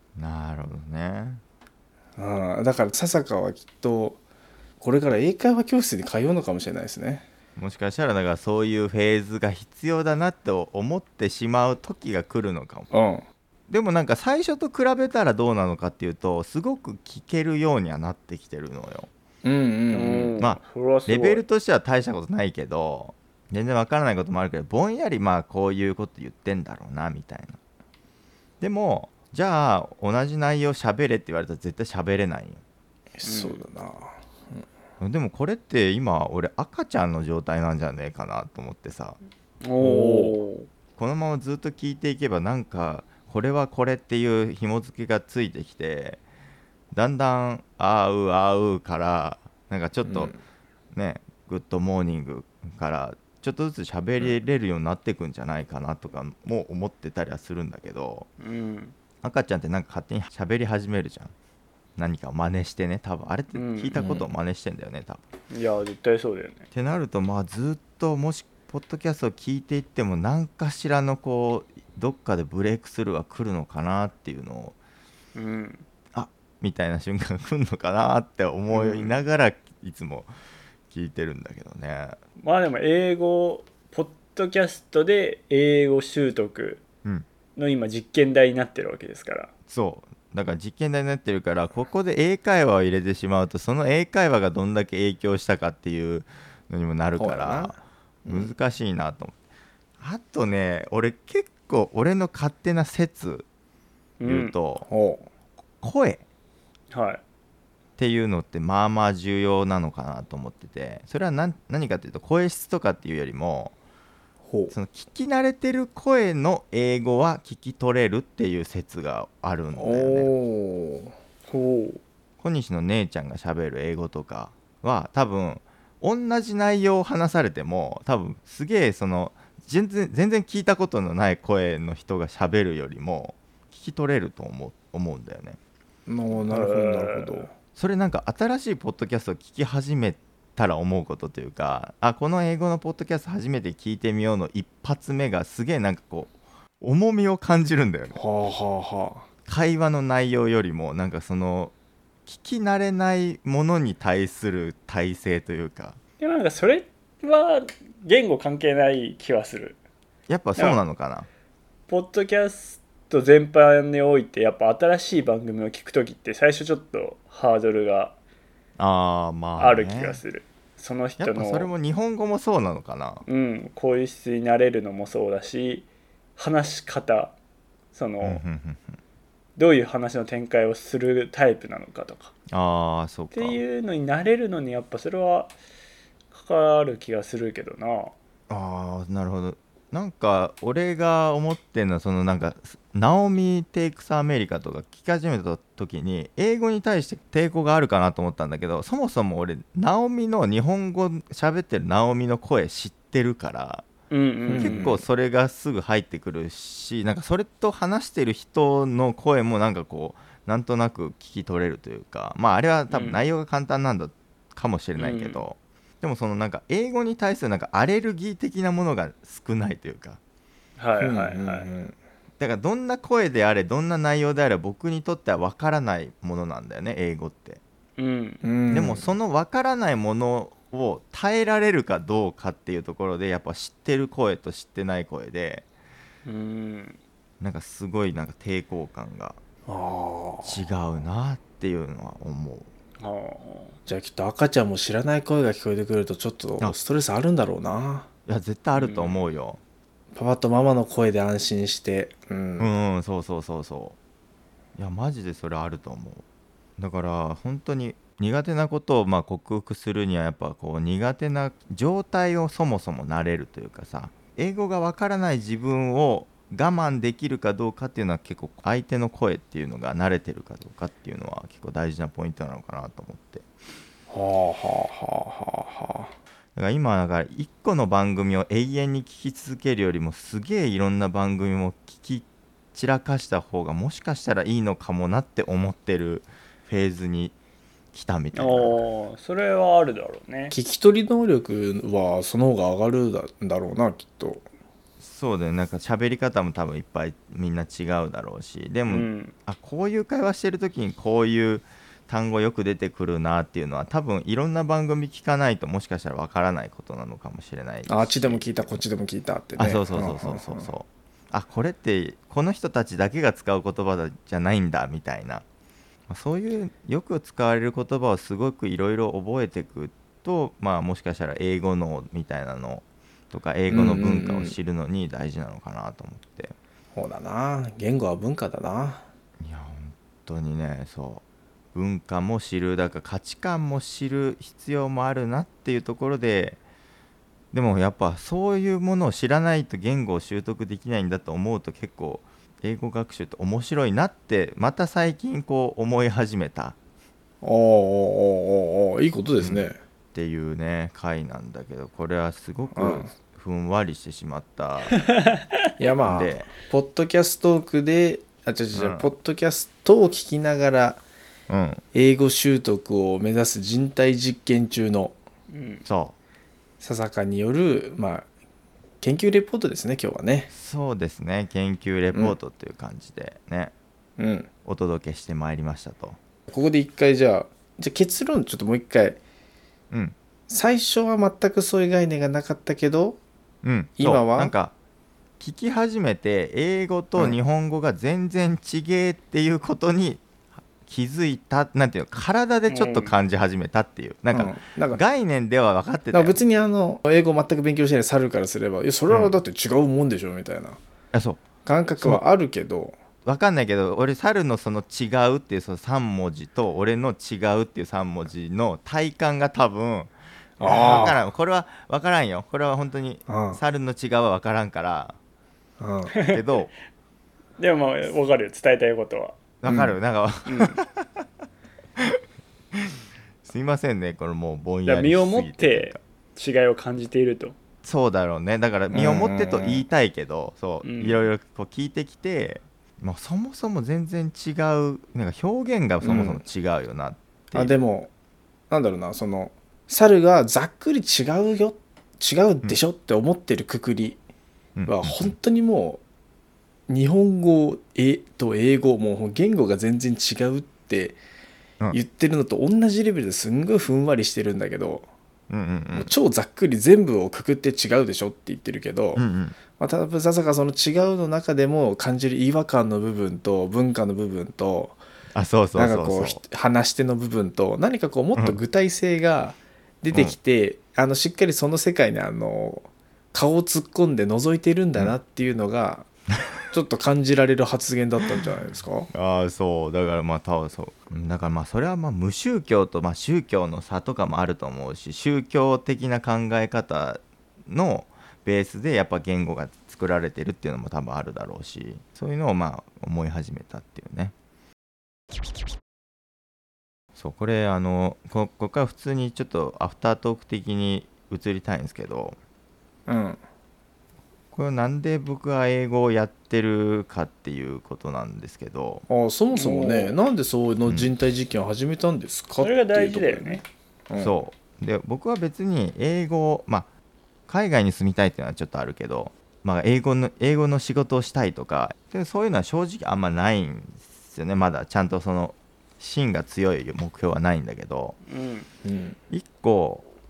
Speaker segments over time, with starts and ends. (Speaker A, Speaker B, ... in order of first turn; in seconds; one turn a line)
Speaker A: 0.2-1.4
Speaker B: 2.2-4.2
Speaker B: 4.8-7.2
Speaker A: 7.5-12.9
Speaker B: 12.9-13.2
Speaker A: 13.7-19.1
Speaker B: 19.4-20.4
Speaker C: 19.9-21.4
Speaker A: 20.4-27.6
Speaker A: 28.6-32.6
Speaker B: 33.1-34.6
Speaker C: 33.2-33.6
Speaker A: 35.0-39.2
Speaker C: 39.6-40.7
Speaker B: 39.8-40.4
Speaker A: 41.0-46.2
Speaker A: 46.9-50.3
Speaker B: 50.0-50.4
Speaker A: 50.9-58.3
Speaker C: 58.4-58.9
Speaker A: 59.2-61.3
Speaker A: 62.0-65.2
Speaker C: 63.5-64.0
Speaker B: 63.9-64.2
Speaker C: 65.5-66.7
Speaker A: 66.7-74.7
Speaker C: 75.3-75.8
Speaker A: 76.1-80.3
Speaker C: 78.7-79.2
Speaker A: 80.9-82.2
Speaker C: 82.4-86.8
Speaker C: 87.5-89.5
Speaker A: 89.7-99.3
Speaker B: 97.2-97.8
Speaker A: 100.0-103.4
Speaker C: 104.2-104.5
Speaker A: 104.2-104.8
Speaker B: 104.8-105.3
Speaker A: 105.8-106.2
Speaker C: 106.9-107.2
Speaker A: 108.0-113.7
Speaker B: 114.5-114.7
Speaker A: 114.7-120.3
Speaker B: 119.7-121.1
Speaker C: 121.5-122.0
Speaker A: 122.4-135.6
Speaker B: 136.1-137.5
Speaker C: 136.5-137.4
Speaker A: 137.8-148.2
Speaker B: 148.1-149.2
Speaker A: 149.4-151.7
Speaker A: 152.2-156.0
Speaker C: 156.2-159.8
Speaker A: 160.3-161.3
Speaker C: 161.9-168.2
Speaker A: 168.8-170.2
Speaker C: 169.6-171.7
Speaker A: 171.2-173.2
Speaker C: 173.2-175.8
Speaker C: 176.4-177.3
Speaker C: 177.9-178.4
Speaker A: 178.2-179.0
Speaker C: 179.6-182.3
Speaker A: 182.5-183.6
Speaker C: 183.3-185.5
Speaker C: 186.3-188.1
Speaker A: 188.5-203.9
Speaker C: 204.1-204.9
Speaker B: 204.4-205.0
Speaker A: 204.5-220.2
Speaker C: 212.9-213.2
Speaker C: 215.0-215.4
Speaker C: 220.8-221.7
Speaker B: 221.0-221.9
Speaker A: 222.4-227.6
Speaker C: 228.0-228.4
Speaker B: 228.4-229.1
Speaker A: 228.7-235.6
Speaker C: 236.2-237.0
Speaker A: 237.4-239.4
Speaker B: 239.7-240.6
Speaker A: 240.4-242.7
Speaker C: 243.0-243.8
Speaker B: 243.9-248.1
Speaker A: 248.3-249.6
Speaker C: 248.8-249.2
Speaker B: 250.1-252.7
Speaker A: 252.6-253.9
Speaker A: 254.8-256.2
Speaker A: 256.8-273.4
Speaker B: 274.1-276.1
Speaker A: 276.6-287.3
Speaker A: 287.9-288.8
Speaker C: 288.3-290.5
Speaker B: 290.5-294.4
Speaker A: 295.0-308.8
Speaker C: 298.9-299.3
Speaker B: 307.9-310.7
Speaker A: 309.6-315.4
Speaker A: 316.1-326.5
Speaker B: 323.7-324.6
Speaker B: 326.9-329.1
Speaker A: 329.4-331.2
Speaker A: 331.7-336.6
Speaker A: 337.5-346.8
Speaker B: 347.4-349.8
Speaker A: 349.4-355.0
Speaker B: 352.7-353.1
Speaker C: 354.9-355.5
Speaker B: 355.8-361.0
Speaker A: 356.1-356.5
Speaker A: 358.7-359.1
Speaker A: 361.5-361.8
Speaker B: 361.9-365.2
Speaker C: 365.5-365.8
Speaker A: 365.9-366.1
Speaker B: 366.8-368.3
Speaker B: 369.0-370.5
Speaker A: 370.5-373.7
Speaker B: 374.2-374.5
Speaker A: 374.6-376.2
Speaker B: 376.5-379.2
Speaker B: 380.5-383.2
Speaker A: 383.6-384.7
Speaker B: 384.0-384.5
Speaker A: 385.4-390.2
Speaker A: 390.8-396.4
Speaker C: 392.7-393.1
Speaker B: 394.3-395.0
Speaker B: 396.1-400.8
Speaker A: 401.1-401.4
Speaker B: 401.6-402.9
Speaker A: 403.2-415.1
Speaker B: 410.6-411.2
Speaker B: 413.3-413.6
Speaker B: 415.8-416.1
Speaker C: 416.1-416.4
Speaker A: 416.2-416.7
Speaker C: 417.6-419.4
Speaker A: 419.6-421.2
Speaker B: 419.7-419.9
Speaker C: 420.4-420.8
Speaker A: 423.4-426.0
Speaker C: 424.9-427.6
Speaker A: 427.8-437.7
Speaker B: 428.9-429.9
Speaker C: 430.8-431.2
Speaker B: 436.0-436.4
Speaker B: 437.5-438.1
Speaker B: 438.7-444.2
Speaker A: 444.8-445.3
Speaker B: 444.9-446.0
Speaker B: 446.9-451.2
Speaker B: 451.9-455.1
Speaker A: 455.5-456.1
Speaker B: 455.9-459.2
Speaker A: 459.1-459.6
Speaker B: 459.7-465.0
Speaker A: 465.3-466.4
Speaker B: 465.7-476.1
Speaker A: 470.1-470.4
Speaker B: 476.7-479.1
Speaker A: 479.1-494.3
Speaker A: 497.1-502.4
Speaker B: 503.1-503.4
Speaker A: 504.5-509.0
Speaker B: 509.1-514.4
Speaker C: 509.5-510.1
Speaker C: 512.6-513.6
Speaker A: 514.2-516.9
Speaker A: 517.5-528.2
Speaker C: 528.3-528.7
Speaker B: 528.8-529.2
Speaker A: 529.3-530.0